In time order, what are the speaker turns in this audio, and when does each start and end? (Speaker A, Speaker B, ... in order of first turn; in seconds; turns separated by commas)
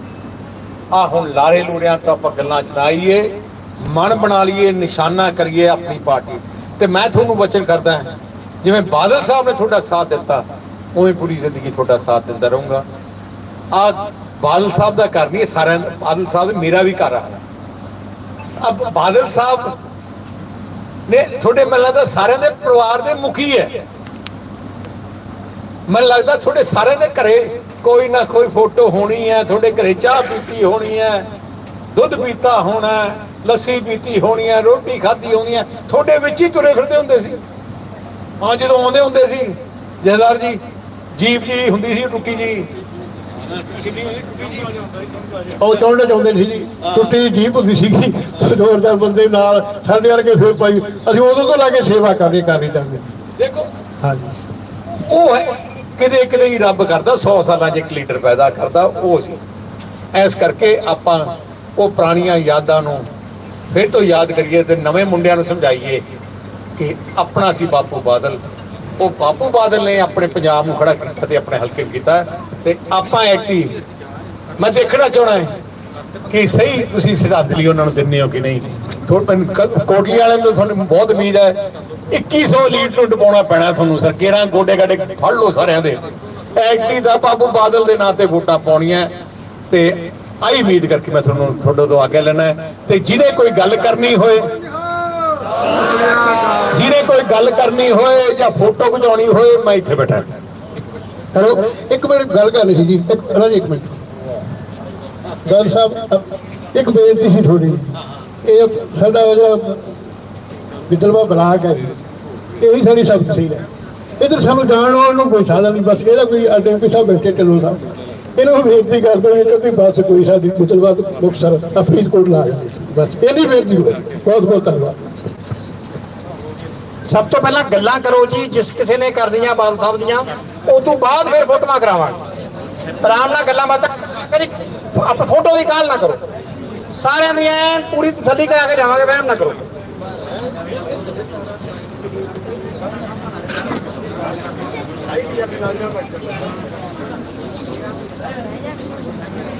Speaker A: 0.9-8.1, Speaker A: 8.6-12.8, Speaker A: 13.7-17.4, Speaker A: 18.6-19.8, Speaker A: 21.1-23.8, Speaker A: 25.9-31.3, Speaker A: 31.9-37.4, Speaker A: 38.4-40.6, Speaker A: 41.1-42.7, Speaker B: 45.6-53.1, Speaker A: 53.4-53.7, Speaker B: 54.0-54.4, Speaker A: 55.1-59.4, Speaker A: 60.1-63.1, Speaker A: 63.7-66.0, Speaker A: 66.8-68.4, Speaker A: 69.0-73.8, Speaker A: 74.6-75.5, Speaker A: 76.3-86.0, Speaker A: 86.5-89.1, Speaker A: 89.7-94.5, Speaker A: 96.7-100.3, Speaker B: 101.3-104.0, Speaker B: 105.5-107.8, Speaker B: 108.4-109.8, Speaker B: 110.9-112.0, Speaker B: 112.6-113.6, Speaker B: 114.2-117.8, Speaker B: 118.4-125.2, Speaker C: 127.1-132.2, Speaker C: 133.0-136.2, Speaker C: 136.9-139.6